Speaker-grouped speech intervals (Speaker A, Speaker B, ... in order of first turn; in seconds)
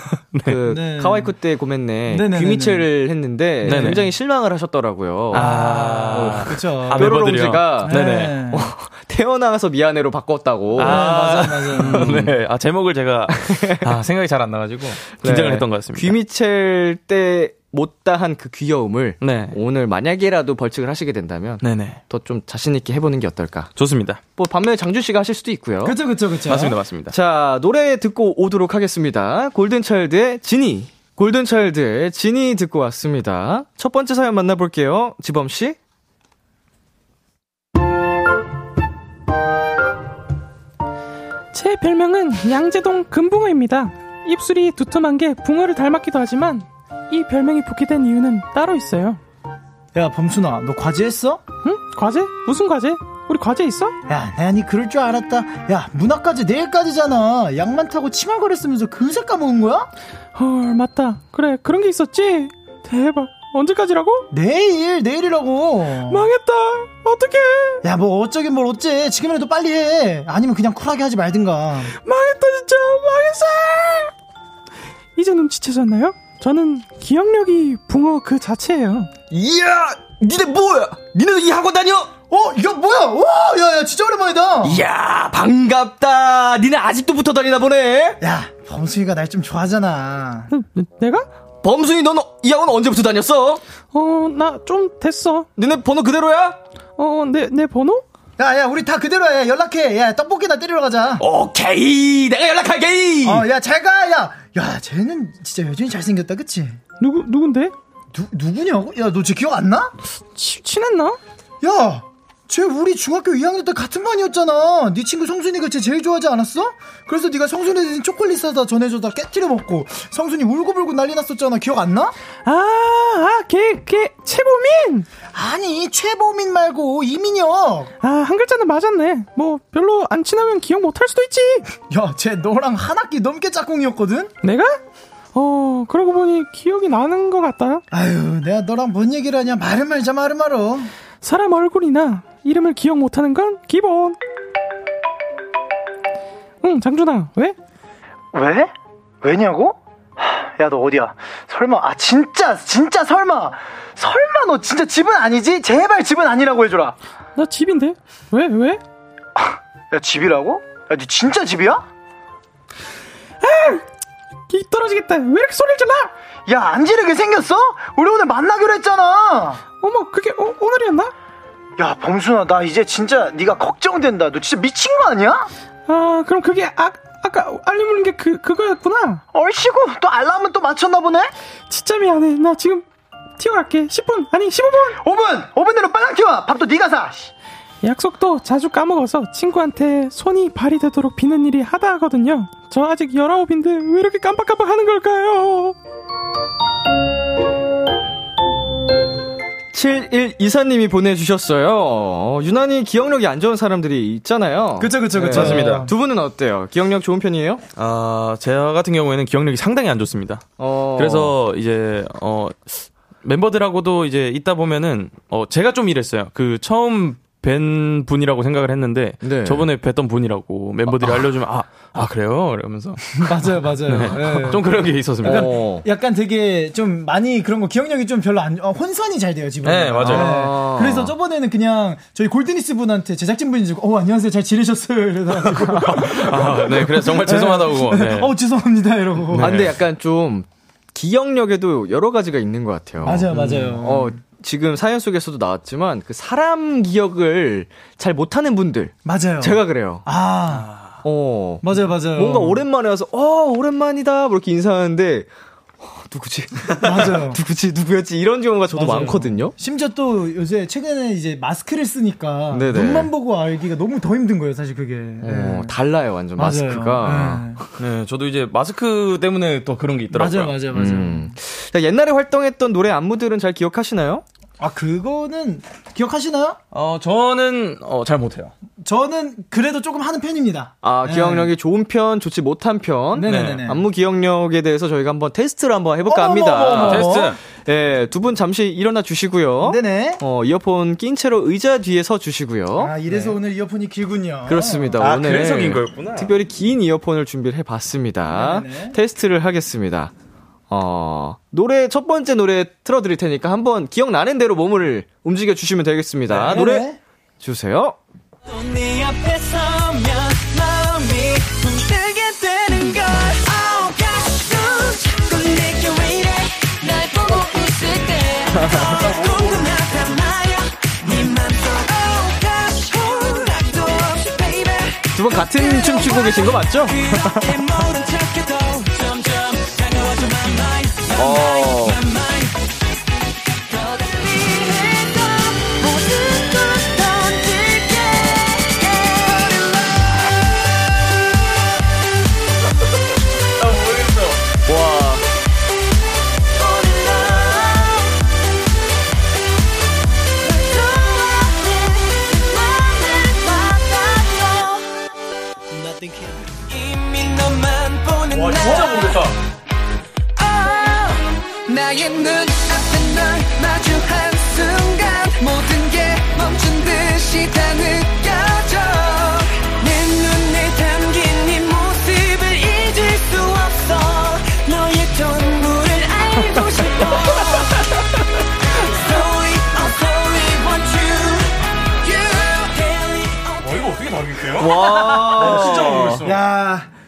Speaker A: 0.3-0.6, 3.6-4.0, 5.3-8.4, 10.8-16.2, 19.2-19.6, 21.6-22.0, 23.8-24.2, 26.5-27.1, 73.6-73.9, 75.6-76.4, 78.6-79.0, 90.7-91.1, 94.0-95.4, 97.0-97.8, 110.4-111.1, 122.5-125.0, 128.2-131.6, 135.4-137.8, 141.3-144.1, 146.6-147.5, 157.4-158.8, 163.4-163.8, 164.5-166.0, 169.8-171.1, 175.9-179.2, 181.7-182.8, 183.4-184.9, 187.8-195.7, 205.2-205.9, 207.8-225.6, 229.6-230.3, 235.5-238.3, 239.3-239.8, 250.5-251.0, 267.8-270.6, 276.7-278.5, 283.2-283.7, 286.7-287.4, 295.0-296.3, 306.3-306.6, 343.6-344.4, 358.3-359.4, 383.6-386.4
Speaker B: 0.4-5.5, 6.1-11.2, 11.8-12.4, 13.3-13.9, 15.2-23.7, 24.4-26.0, 27.1-35.8, 79.3-82.1, 84.6-88.2, 91.6-93.6, 95.6-96.6, 101.2-103.5, 199.7-207.6, 210.6-211.3, 219.2-219.7, 225.2-225.8, 230.0-231.1, 239.4-250.1, 251.0-255.3, 255.8-259.5, 262.5-263.1, 265.2-267.7, 270.7-274.2, 280.8-293.0, 294.5-300.1, 300.7-306.9, 307.4-308.0, 318.5-319.1, 325.1-327.6, 331.1-332.0, 344.7-345.2, 384.6-386.3
Speaker C: 0.7-1.3, 2.1-2.9, 3.6-4.0, 5.3-7.2, 7.8-8.7, 10.8-12.1, 25.8-26.8, 50.0-51.4, 54.1-59.9, 64.3-66.3, 67.8-71.9, 82.3-84.8, 88.2-90.5, 98.4-101.2, 103.2-106.8, 108.1-109.9, 111.6-122.1, 125.3-127.9, 131.9-134.3, 137.9-140.9, 148.3-157.0, 159.4-161.8, 166.5-169.6, 171.8-175.5, 179.3-181.3, 185.0-187.3, 204.8-205.9, 223.2-224.6, 225.2-239.6, 243.0-244.2, 249.1-250.7, 251.6-252.6, 256.8-257.4, 258.7-265.8, 266.4-267.6, 270.1-271.3, 274.6-276.6, 278.8-281.5, 283.1-283.8, 286.1-287.4, 289.6-290.2, 292.8-294.9, 298.3-299.0, 306.4-307.0, 355.7-356.4, 385.1-386.9
Speaker D: 41.5-49.2, 51.6-54.0, 60.4-64.3, 66.1-67.8, 72.0-74.1, 75.2-79.1, 90.5-91.2, 93.9-95.5, 97.0-98.0, 107.0-107.7, 110.5-111.2, 122.5-125.0, 128.0-131.6, 135.3-137.8, 141.2-144.2, 146.6-147.6, 157.4-158.8, 163.4-163.8, 164.5-166.1, 169.8-171.1, 175.9-179.2, 181.7-182.8, 183.4-184.8, 187.9-191.7
Speaker E: 308.5-332.7, 333.7-340.2, 346.5-348.3, 350.4-355.0, 356.5-359.3, 360.4-377.9, 378.7-384.0